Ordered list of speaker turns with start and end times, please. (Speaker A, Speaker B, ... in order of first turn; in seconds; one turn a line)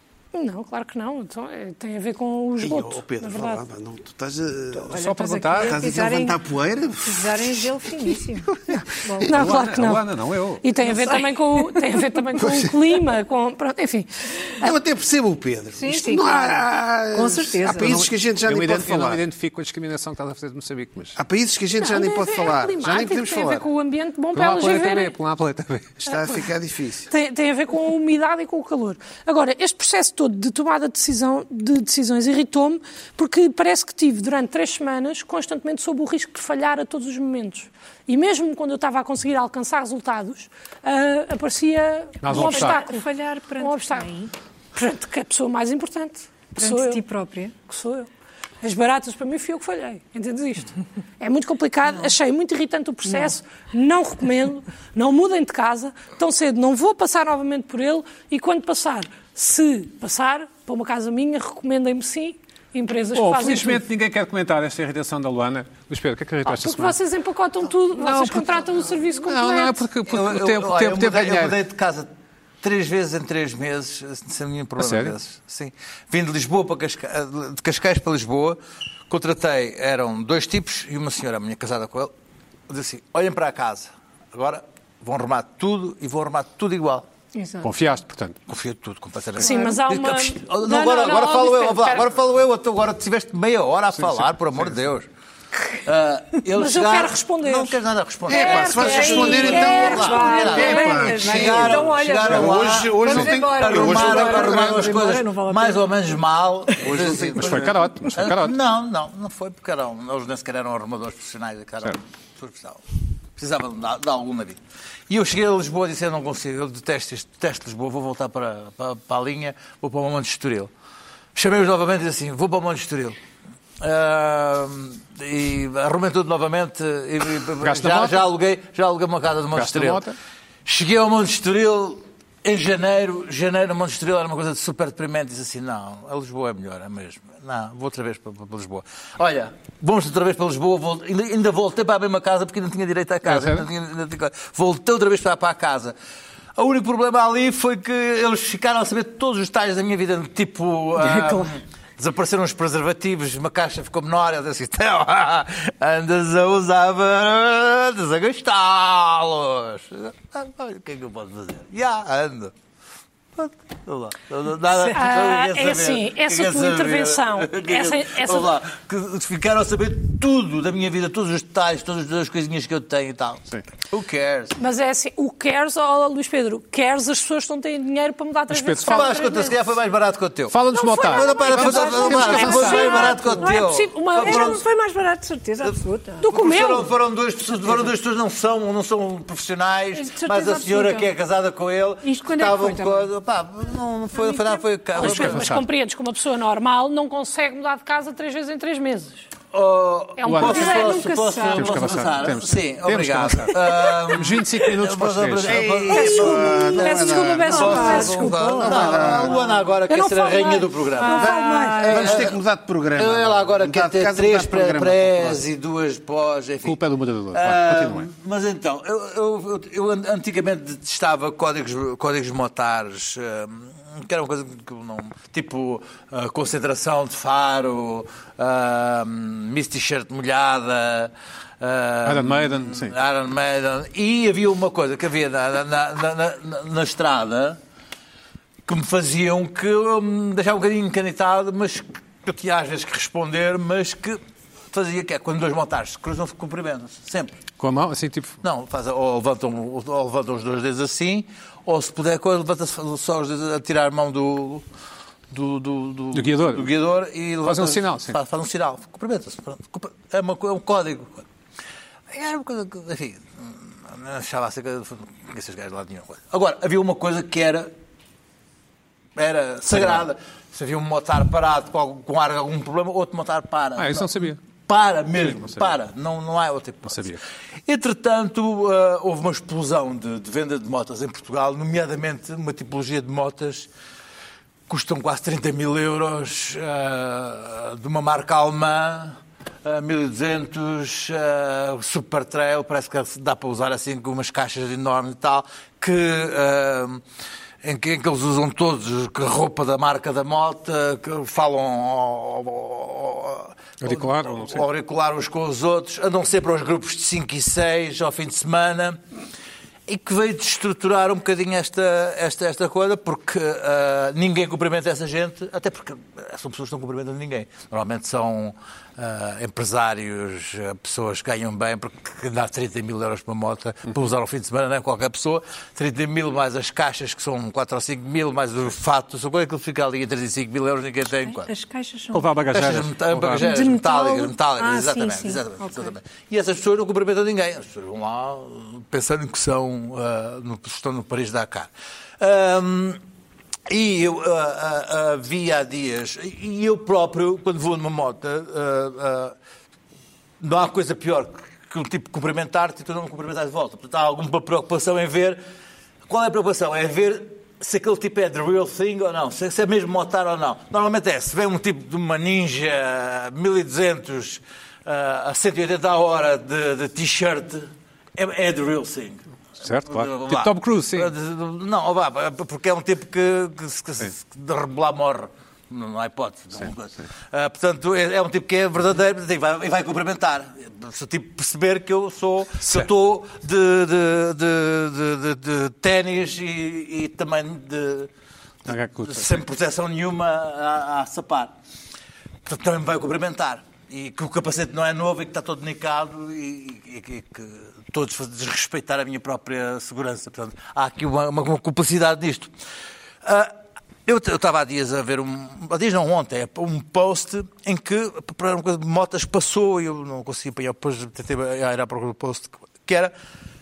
Speaker A: 0.3-3.6
Speaker B: 2.6-8.1
Speaker C: 4.9-6.4
Speaker D: 4.9-5.8
Speaker C: 7.0-9.4
Speaker A: 9.2-10.1
Speaker D: 9.3-10.6
Speaker A: 10.6-14.7
Speaker C: 10.8-11.9
Speaker B: 12.4-12.8
Speaker B: 14.6-19.2
Speaker C: 15.8-18.0
Speaker D: 17.9-21.2
Speaker B: 21.2-23.6
Speaker A: 21.8-25.1
Speaker D: 24.4-26.1
Speaker B: 26.0-27.1
Speaker A: 26.1-26.4
Speaker A: 27.1-43.0
Speaker D: 42.2-42.8
Speaker C: 42.3-44.3
Speaker A: 43.6-44.2
Speaker A: 44.7-47.0
Speaker C: 46.6-47.5
Speaker A: 47.7-48.1
Speaker A: 48.6-63.8
Speaker C: 53.1-53.3
Speaker D: 63.1-67.0
Speaker A: 66.5-69.9
Speaker D: 67.9-68.7
Speaker D: 69.2-71.6
Speaker E: 70.1-72.1
Speaker E: 72.6-82.1
Speaker D: 74.8-75.2
Speaker E: 82.7-87.1
Speaker C: 87.3-87.7
Speaker D: 87.6-88.4
Speaker E: 88.5-95.1
Speaker A: 89.4-92.1
Speaker C: 89.5-89.8
Speaker D: 94.0-94.7
Speaker E: 95.8-112.8
Speaker A: 96.5-97.8
Speaker B: 98.3-105.0
Speaker A: 98.3-101.0
Speaker C: 98.3-106.0
Speaker B: 106.8-107.7
Speaker D: 107.3-108.6
Speaker E: 113.4-120.7
Speaker E: 121.3-123.2
Speaker E: 123.8-130.0
Speaker D: 127.6-128.3
Speaker D: 129.5-130.2
Speaker E: 130.7-145.9
Speaker D: 143.2-143.7
Speaker E: 146.6-162.5
Speaker C: 151.1-151.4
Speaker E: 163.4-174.6
Speaker A: 164.9-168.5
Speaker A: 174.6-179.6
Speaker D: 178.5-179.1
Speaker E: 178.9-184.6
Speaker D: 180.5-183.1
Speaker A: 180.7-184.6
Speaker C: 181.6-186.3
Speaker A: 186.2-186.9
Speaker E: 186.2-195.5
Speaker C: 189.9-191.1
Speaker C: 192.0-193.1
Speaker A: 194.9-199.3
Speaker D: 195.0-195.7
Speaker E: 199.5-212.4
Speaker A: 200.2-201.2
Speaker D: 200.2-200.8
Speaker C: 200.4-202.1
Speaker D: 201.5-205.7
Speaker B: 205.4-209.5
Speaker A: 205.9-208.4
Speaker C: 206.6-206.9
Speaker C: 207.5-209.3
Speaker A: 209.9-212.1
Speaker C: 211.0-212.2
Speaker B: 211.8-215.4
Speaker E: 213.0-216.8
Speaker D: 216.6-218.1
Speaker E: 217.3-237.6
Speaker D: 232.1-233.0
Speaker E: 238.7-244.2
Speaker E: 244.7-247.4
Speaker D: 247.6-248.4
Speaker E: 248.4-254.7
Speaker E: 255.3-261.2
Speaker D: 256.1-256.7
Speaker D: 257.4-258.2
Speaker E: 262.1-267.7
Speaker E: 269.2-277.1
Speaker D: 269.7-270.1
Speaker D: 273.8-274.4
Speaker D: 275.2-275.7
Speaker D: 276.9-277.2
Speaker E: 277.7-283.7
Speaker E: 284.7-297.0
Speaker E: 297.6-309.0
Speaker D: 303.8-304.7
Speaker E: 309.9-331.5
Speaker C: 331.2-332.3
Speaker D: 332.1-333.5
Speaker E: 332.5-343.0
Speaker C: 333.4-335.9
Speaker E: 343.7-349.4
Speaker E: 350.4-355.4
Speaker E: 356.1-369.2
Speaker D: 369.6-371.1
Speaker E: 369.9-388.1
Speaker D: 382.6-382.9
Speaker D: 388.7-389.4
Speaker E: 388.7-391.5
Speaker E: 392.5-402.5
Speaker E: 403.2-403.5
Speaker E: 404.1-413.1